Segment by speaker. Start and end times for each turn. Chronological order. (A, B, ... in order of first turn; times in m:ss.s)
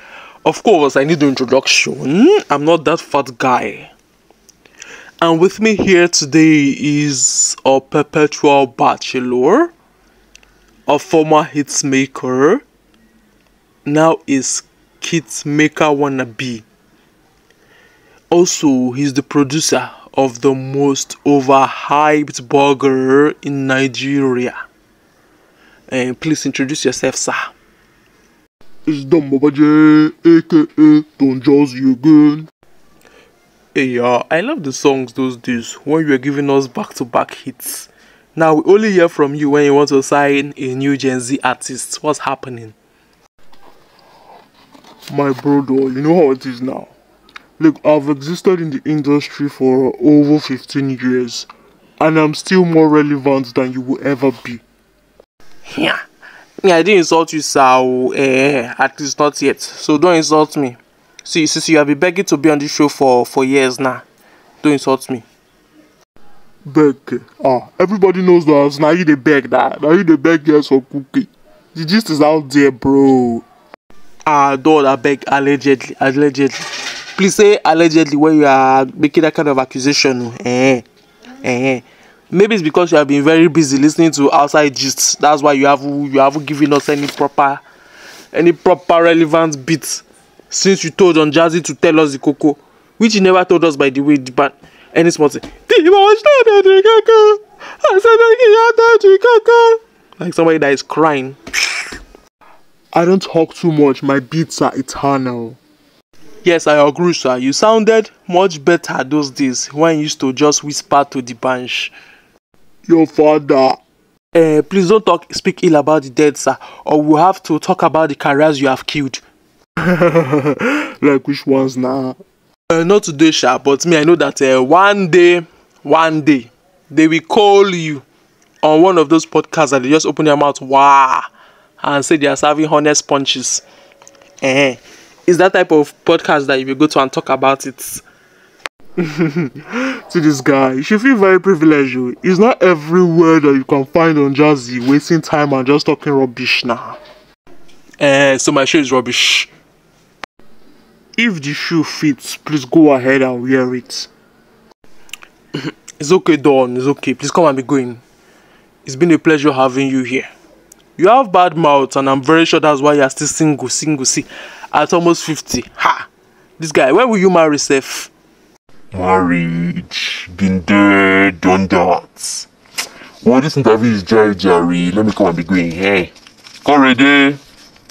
0:00.4-0:03.9 A
0:05.2-0:09.7 A
0:10.9-0:12.6 A
0:13.8-0:16.6 A
0:18.3-0:24.6 A
0:25.9-0:27.5 A
0:28.8-0:32.5 B
0:33.7-0:42.8 A
0:45.1-0:46.9 B
0:47.6-0:51.5 B
0:52.0-0:54.6 B
0:55.6-0:56.0 A
0:56.6-1:04.0 A
1:04.6-1:05.2 A
1:06.6-1:13.4 B
1:14.2-1:20.8 A
1:21.4-1:27.6 A
1:28.3-1:41.4 A
1:42.9-1:45.6 B
1:46.4-1:51.9 A
1:52.9-1:53.8 B
1:54.3-1:59.2 A
1:59.8-2:02.2 B
2:02.7-2:08.0 A
2:08.6-2:11.2 A
2:11.8-2:13.6 A
2:14.4-2:18.0 A
2:20.1-2:26.9 B
2:28.0-2:29.5 A
2:31.2-2:34.1 B
2:35.6-2:38.0 A
2:38.8-2:40.3 A
2:41.0-2:46.1 A
2:46.6-2:48.1 A
2:48.9-2:52.5 C
2:53.2-2:56.1 C
2:56.6-2:57.4 C